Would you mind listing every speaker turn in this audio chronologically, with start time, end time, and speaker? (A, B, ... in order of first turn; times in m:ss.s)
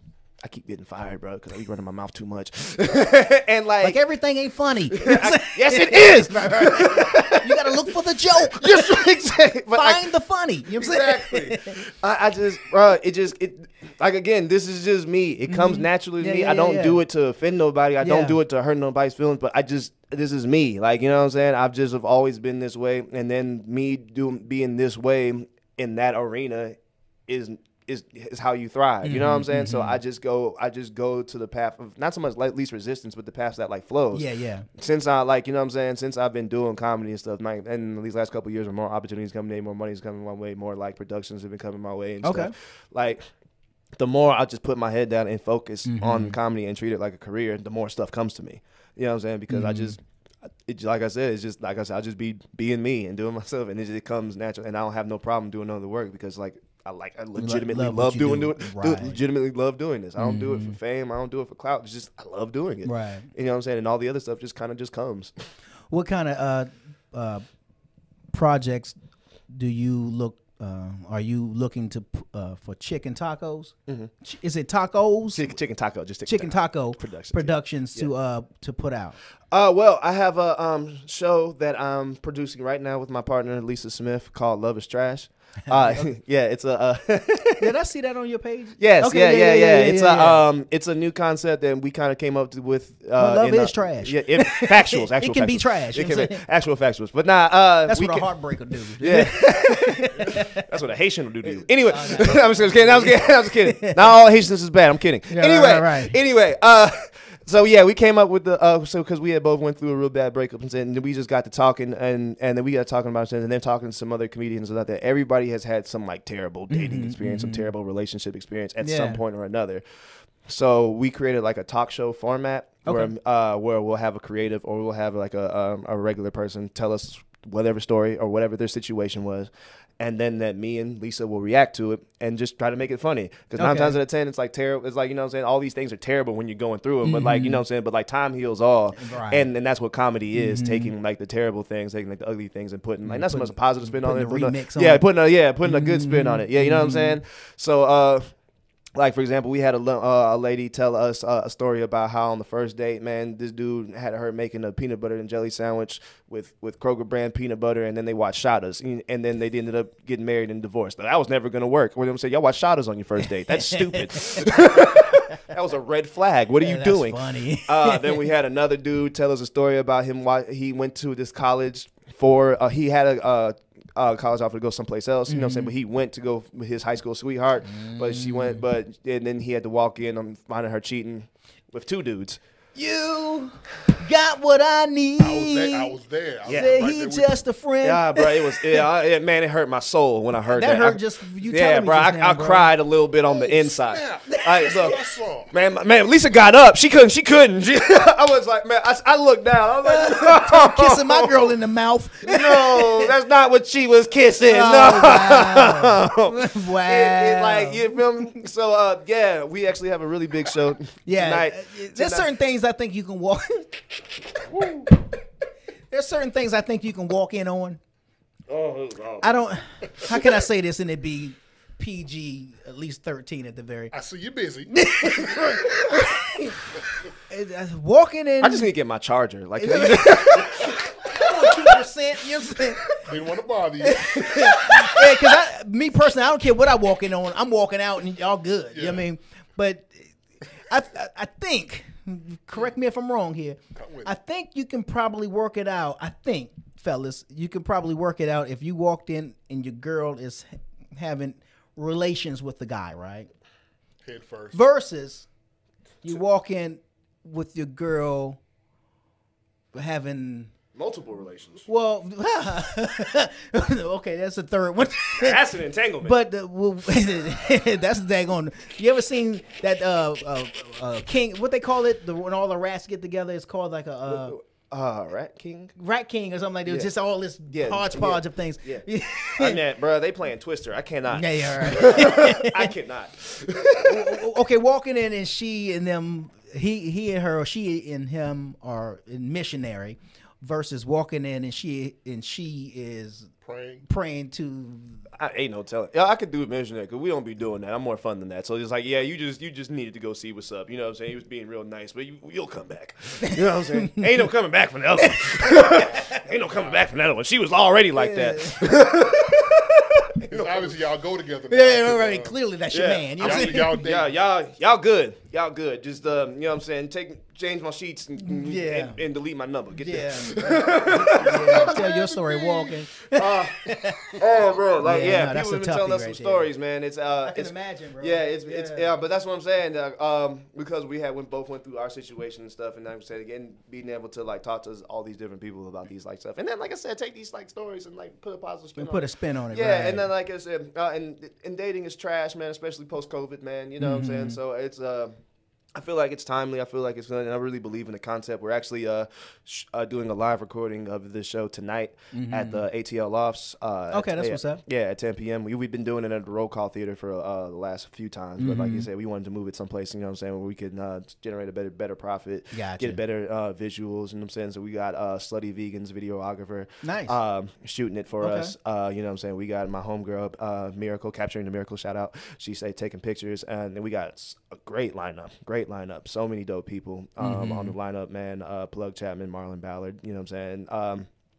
0:00.4-0:04.0 A
0:03.8-0:09.1 B
0:04.9-0:07.9 A
0:08.5-0:10.1 A
0:09.7-0:11.8 B
0:10.7-0:43.2 A
0:15.5-0:17.0 B
0:18.0-0:18.4 B
0:29.0-0:30.0 B
0:34.1-0:34.7 B
0:42.2-0:42.5 B
0:44.0-1:05.3 A
0:45.8-0:46.4 B
0:49.5-0:50.0 B
0:57.4-0:59.2 B
1:00.2-1:00.8 B
1:02.8-1:03.3 B
1:05.9-1:07.4 B
1:08.3-1:09.0 B
1:09.5-1:15.6 B
1:15.3-1:18.1 A
1:16.2-1:19.2 B
1:19.5-1:27.7 A
1:25.7-1:26.1 B
1:27.6-1:30.4 B
1:28.8-1:38.3 A
1:33.2-1:36.4 B
1:37.8-1:40.6 B
1:39.0-1:59.8 A
1:41.4-1:44.0 B
1:45.3-1:46.2 B
1:56.7-1:57.7 B
1:58.8-1:59.2 B
2:00.5-2:28.2 A
2:02.8-2:03.1 B
2:13.5-2:14.0 B
2:17.0-2:17.6 B
2:18.9-2:19.5 B
2:20.3-2:20.9 B
2:23.0-2:25.1 B
2:25.6-2:27.2 B
2:29.0-3:02.4 A
2:43.5-2:45.1 B
2:46.6-2:48.3 B
2:55.3-2:55.7 B
2:57.6-2:58.6 B
3:02.7-3:05.9 B
3:05.2-3:07.4 C
3:06.5-3:06.8 A
3:06.5-3:08.8 B
3:07.8-3:21.5 A
3:10.5-3:12.7 B
3:13.3-3:15.5 C
3:19.8-3:23.1 B
3:22.2-3:32.3 A
3:24.4-3:28.4 B
3:31.0-3:33.7 B
3:34.5-3:34.8 A
3:35.9-3:37.8 B
3:38.5-3:39.2 A
3:38.7-3:39.0 C
3:39.2-3:43.9 B
3:43.9-3:44.8 C
3:44.7-3:48.7 B
3:48.4-3:50.8 A
3:49.6-3:53.0 B
3:53.0-3:54.3 C
3:53.8-4:13.3 B
3:54.3-3:55.4 A
3:58.7-3:59.0 C
4:03.7-4:04.1 C
4:14.0-4:14.6 C
4:14.5-4:15.3 B
4:16.0-4:18.4 B
4:19.7-4:20.5 B
4:20.8-4:21.6 A
4:21.6-4:25.4 B
4:25.2-4:26.2 A
4:26.0-4:34.4 B
4:34.1-4:35.8 A
4:35.8-4:39.6 B
4:36.6-4:36.9 A
4:37.5-4:44.2 A
4:41.1-4:42.7 B
4:43.7-4:53.3 B
4:53.4-4:53.8 C
4:53.9-4:55.1 B
4:55.1-5:10.8 A
5:03.8-5:04.0 B
5:08.0-5:08.6 B
5:10.3-5:12.4 C
5:11.5-5:13.8 B
5:12.7-5:21.8 A
5:13.2-5:14.1 C
5:18.2-5:19.0 B
5:19.8-5:24.2 B
5:21.5-5:22.8 C
5:23.1-5:45.1 A
5:24.8-5:26.5 B
5:27.2-5:28.9 B
5:38.8-5:40.1 B
5:43.8-5:44.4 B
5:45.8-6:21.1 A
5:52.1-5:52.6 B
5:53.9-5:54.6 B
5:58.4-5:58.9 B
6:02.5-6:03.0 B
6:06.8-6:07.2 B
6:08.2-6:08.5 B
6:17.2-6:17.8 B